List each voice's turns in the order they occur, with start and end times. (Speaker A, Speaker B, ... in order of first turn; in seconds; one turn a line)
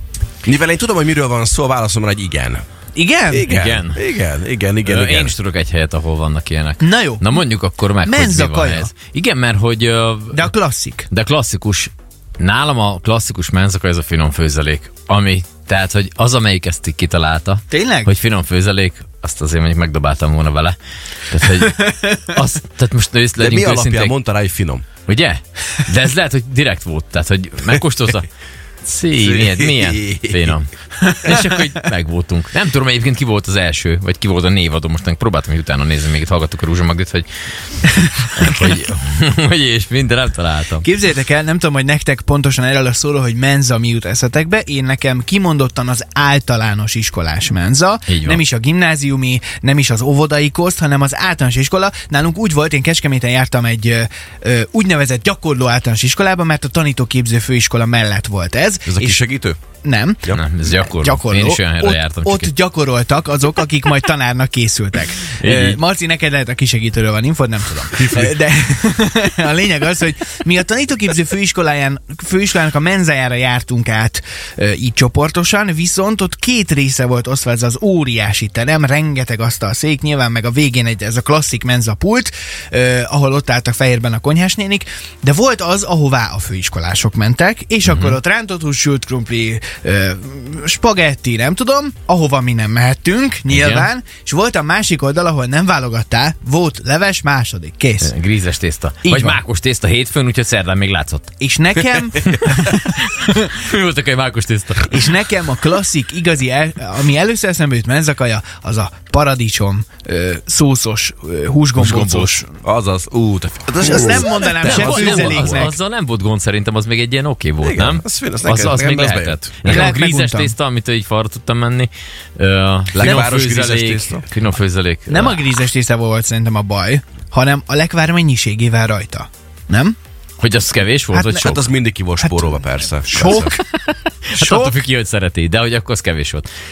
Speaker A: 0.4-2.6
Speaker B: 2.9-3.5
Speaker A: 3.3-5.3
Speaker C: 3.4-4.0
Speaker C: 4.8-10.5
Speaker B: 6.8-7.4
Speaker B: 8.0-8.9
Speaker B: 10.3-11.1
Speaker C: 11.1-20.8
Speaker B: 17.7-18.1
Speaker C: 21.3-24.2
Speaker B: 21.5-22.3
Speaker A: 23.4-24.9
Speaker C: 25.1-28.3
Speaker C: 28.8-37.3
Speaker A: 29.2-30.5
Speaker B: 31.0-31.6
Speaker B: 37.8-38.6
Speaker C: 38.3-40.8
Speaker B: 40.8-59.2
Speaker C: 48.1-48.4
Speaker A: 58.9-59.6
Speaker B: 59.8-98.1
Speaker C: 60.3-62.5
Speaker C: 65.3-65.8
Speaker A: 67.9-68.4
Speaker C: 87.8-88.2
Speaker C: 93.5-93.9
Speaker C: 98.0-101.3
Speaker B: 99.0-99.4
Speaker B: 101.4-103.5
Speaker C: 102.2-105.2
Speaker B: 104.9-112.5
Speaker C: 111.8-112.4
Speaker A: 112.6-115.7
Speaker B: 113.8-115.7
Speaker C: 114.6-125.4
Speaker A: 117.6-119.8
Speaker B: 119.7-120.5
Speaker A: 122.9-124.2
Speaker B: 125.1-129.9
Speaker C: 130.4-131.7
Speaker B: 131.1-131.5
Speaker A: 131.3-133.5
Speaker B: 132.2-133.6
Speaker C: 133.3-133.6
Speaker C: 134.3-136.5
Speaker B: 134.3-134.8